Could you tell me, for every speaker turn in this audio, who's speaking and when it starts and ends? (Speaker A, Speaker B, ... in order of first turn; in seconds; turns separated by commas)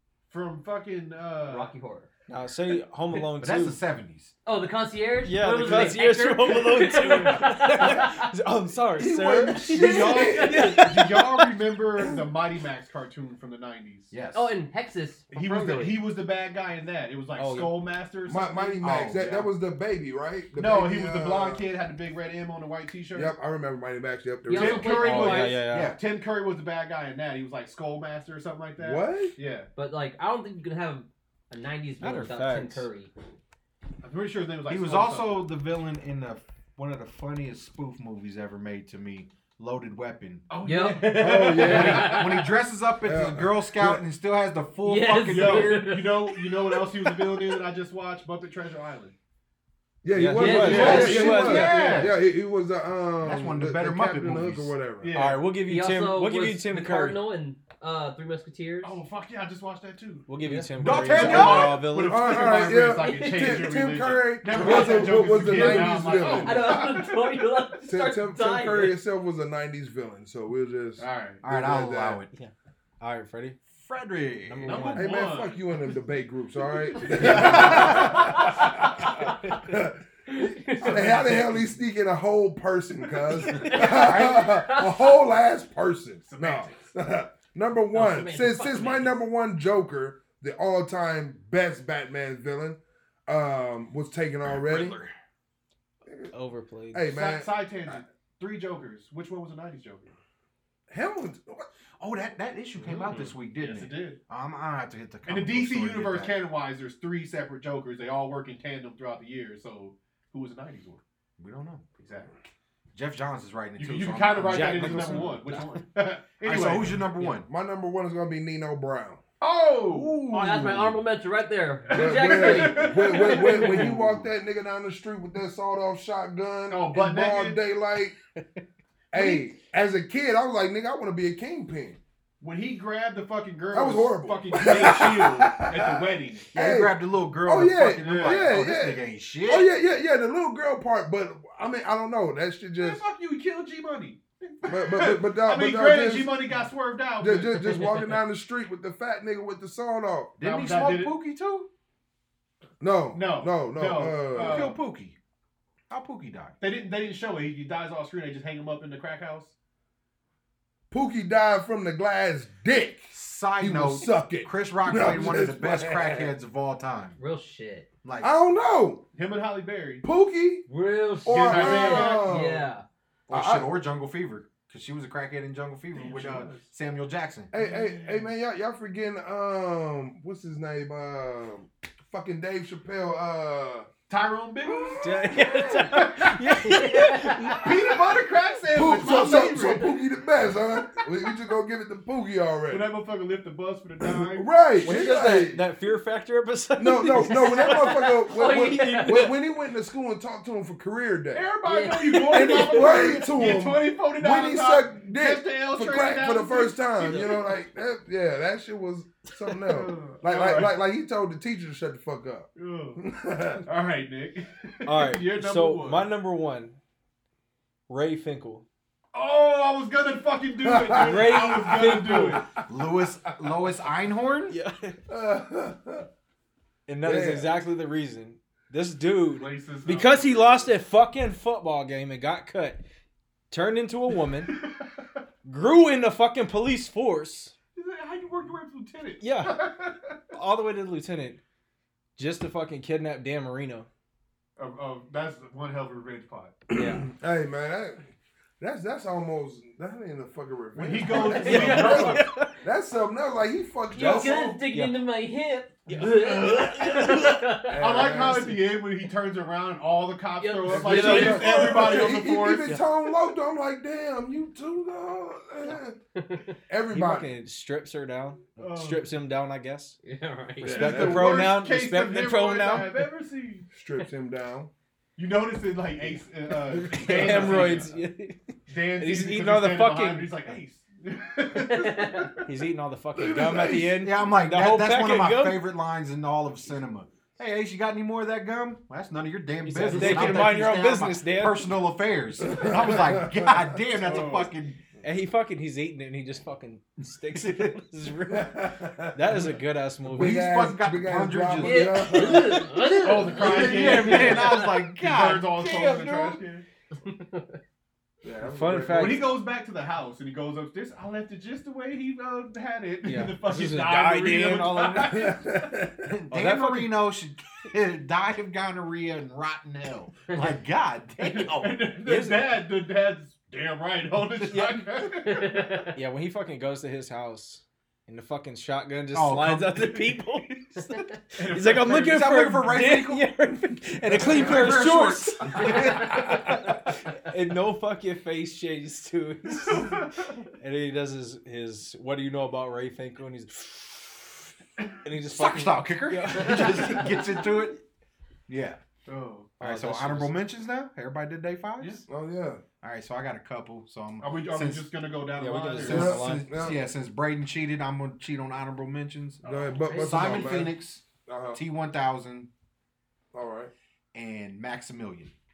Speaker A: 0.3-1.7, Speaker B: 1.4-2.1, Speaker C: 2.3-3.8, Speaker D: 3.4-4.3, Speaker B: 4.4-8.3, Speaker C: 5.2-11.5, Speaker E: 9.0-10.7, Speaker B: 9.7-10.8, Speaker A: 9.7-14.1, Speaker D: 14.1-14.5, Speaker B: 14.3-16.0, Speaker A: 15.3-19.5, Speaker C: 17.4-17.8, Speaker E: 18.3-21.6, Speaker D: 18.8-19.2, Speaker A: 20.6-23.3, Speaker E: 23.1-25.0, Speaker B: 24.5-25.6, Speaker A: 24.5-29.7, Speaker D: 25.0-26.0, Speaker C: 25.0-25.9, Speaker E: 28.8-29.4, Speaker B: 29.7-33.1, Speaker C: 32.0-32.8, Speaker A: 34.0-35.5, Speaker D: 34.7-40.5, Speaker A: 40.5-42.5, Speaker B: 40.6-42.2, Speaker E: 41.1-42.2, Speaker D: 41.6-46.0, Speaker E: 43.0-44.0, Speaker B: 44.8-47.6, Speaker A: 45.3-49.1, Speaker E: 50.0-55.1, Speaker C: 50.1-52.0, Speaker B: 50.4-51.3, Speaker A: 50.4-52.1, Speaker D: 50.6-52.2, Speaker D: 53.2-54.7, Speaker A: 55.0-55.5, Speaker C: 55.1-57.2, Speaker B: 55.6-59.0, Speaker A: 58.8-67.5, Speaker C: 60.3-62.6, Speaker D: 60.8-61.8, Speaker E: 61.2-66.8, Speaker B: 62.6-63.9, Speaker B: 64.5-69.0, Speaker E: 67.9-72.2, Speaker A: 71.0-71.4, Speaker D: 71.4-72.3, Speaker C: 72.3-73.6, Speaker D: 73.7-74.9, Speaker C: 74.5-75.2, Speaker A: 74.7-75.6, Speaker E: 74.9-95.0, Speaker A: 76.7-78.6, Speaker B: 80.3-81.1, Speaker A: 80.9-81.4, Speaker B: 83.3-85.1, Speaker D: 83.7-84.5, Speaker A: 86.3-86.9, Speaker B: 87.9-89.1, Speaker D: 94.4-95.1, Speaker E: 96.0-96.3, Speaker C: 96.3-97.1, Speaker E: 96.9-97.5, Speaker A: 97.1-100.1, Speaker E: 100.9-101.7, Speaker D: 102.0-106.4, Speaker A: 102.9-104.2, Speaker A: 105.3-111.0, Speaker D: 111.4-111.8, Speaker A: 112.0-112.4, Speaker D: 112.9-115.4, Speaker A: 113.8-117.1, Speaker C: 114.4-115.8, Speaker D: 116.4-117.5, Speaker E: 117.5-119.2, Speaker A: 119.4-120.3, Speaker D: 119.9-121.0, Speaker B: 120.3-123.9, Speaker A: 121.9-124.0, Speaker E: 121.9-128.1, Speaker A: 126.7-127.6, Speaker E: 129.1-132.0, Speaker A: 129.1-129.4, Speaker A: 132.4-136.5, Speaker E: 133.7-143.0, Speaker D: 136.5-139.7, Speaker A: 138.0-138.5, Speaker A: 142.8-148.2, Speaker E: 144.7-146.5, Speaker E: 147.2-150.3, Speaker D: 150.4-151.7, Speaker A: 150.4-151.1, Speaker E: 152.8-154.7, Speaker A: 153.1-154.8, Speaker D: 154.3-155.2, Speaker D: 155.9-156.6, Speaker A: 156.6-159.5, Speaker E: 160.9-166.3, Speaker D: 163.1-167.2, Speaker B: 167.2-167.9, Speaker D: 168.0-168.3, Speaker E: 168.2-169.0, Speaker A: 169.1-170.1, Speaker E: 170.0-170.7, Speaker B: 170.7-172.9, Speaker E: 171.2-172.7, Speaker A: 171.3-172.4, Speaker E: 173.3-173.7, Speaker D: 173.3-177.5, Speaker A: 175.9-176.7, Speaker E: 177.5-183.9, Speaker A: 177.6-178.3, Speaker A: 184.1-186.3, Speaker E: 184.7-186.0, Speaker C: 185.0-187.9, Speaker B: 186.6-187.6, Speaker A: 187.6-189.9, Speaker E: 188.7-192.9, Speaker B: 189.2-189.8, Speaker A: 192.7-194.5, Speaker E: 194.2-195.6, Speaker C: 194.8-199.3, Speaker E: 196.8-201.5, Speaker B: 197.1-199.3, Speaker A: 201.3-207.5, Speaker B: 201.6-202.9, Speaker E: 202.1-213.6, Speaker C: 207.0-207.4, Speaker A: 209.6-210.7, Speaker A: 212.6-213.0, Speaker A: 213.6-216.1, Speaker C: 214.9-216.8, Speaker C: 217.9-218.6, Speaker A: 219.1-222.5, Speaker E: 220.6-222.4, Speaker C: 220.9-222.4, Speaker D: 222.7-224.6, Speaker C: 224.5-225.0, Speaker E: 225.1-226.1, Speaker C: 226.9-232.8, Speaker E: 227.0-227.6, Speaker A: 229.3-230.7, Speaker C: 233.5-234.5, Speaker A: 234.3-235.0, Speaker C: 235.4-237.6, Speaker A: 237.7-240.3, Speaker C: 239.2-239.7, Speaker C: 240.3-241.4, Speaker C: 242.2-243.9, Speaker A: 244.6-246.6, Speaker E: 246.7-248.0, Speaker C: 246.7-247.1, Speaker E: 248.6-254.6, Speaker A: 250.7-252.2, Speaker C: 251.1-252.6, Speaker B: 251.3-252.3, Speaker B: 253.9-258.1, Speaker C: 254.0-255.0, Speaker A: 254.2-254.6, Speaker C: 255.9-258.5, Speaker A: 257.7-262.8, Speaker E: 257.7-258.5, Speaker B: 260.4-261.5, Speaker C: 260.7-262.8, Speaker E: 260.7-265.9, Speaker B: 266.1-266.6, Speaker E: 266.7-267.3, Speaker C: 266.9-270.0, Speaker A: 268.6-269.1, Speaker B: 270.0-270.9, Speaker E: 270.6-271.5, Speaker C: 270.6-273.1, Speaker A: 270.8-273.7, Speaker E: 273.7-274.7, Speaker A: 275.2-277.9, Speaker C: 276.7-280.3, Speaker A: 278.7-282.5, Speaker B: 281.7-282.3, Speaker C: 282.4-285.7, Speaker E: 283.1-284.1, Speaker D: 284.0-294.8, Speaker C: 289.6-291.7, Speaker A: 289.9-290.6, Speaker E: 292.4-293.7, Speaker A: 294.0-294.5, Speaker C: 295.0-300.4, Speaker E: 298.3-299.4, Speaker E: 300.1-303.1, Speaker D: 300.1-306.4, Speaker B: 301.6-304.7, Speaker A: 302.9-306.6, Speaker C: 303.4-304.4, Speaker B: 306.9-307.6, Speaker E: 308.2-309.3, Speaker C: 308.4-309.4, Speaker A: 308.9-315.5, Speaker C: 313.1-315.4, Speaker E: 315.1-316.1, Speaker D: 316.1-322.2, Speaker C: 316.3-317.0, Speaker A: 321.2-325.9, Speaker C: 322.1-322.4, Speaker C: 324.4-325.1, Speaker B: 325.2-325.9, Speaker C: 325.9-344.2, Speaker D: 329.1-329.8, Speaker A: 329.9-330.8, Speaker A: 331.3-332.3, Speaker D: 332.0-333.3, Speaker D: 334.1-336.1, Speaker B: 335.6-336.2, Speaker A: 339.6-340.4, Speaker C: 345.0-347.5, Speaker D: 345.3-347.8, Speaker D: 348.5-348.8, Speaker A: 349.1-349.5, Speaker C: 349.6-350.4, Speaker D: 349.6-352.0, Speaker E: 352.1-352.6, Speaker D: 352.8-354.9, Speaker A: 354.2-356.2, Speaker C: 355.4-356.5, Speaker D: 355.8-362.5, Speaker E: 355.9-356.8, Speaker A: 359.4-359.8, Speaker E: 359.4-361.6, Speaker B: 359.8-360.6, Speaker E: 363.3-363.7, Speaker D: 364.1-365.3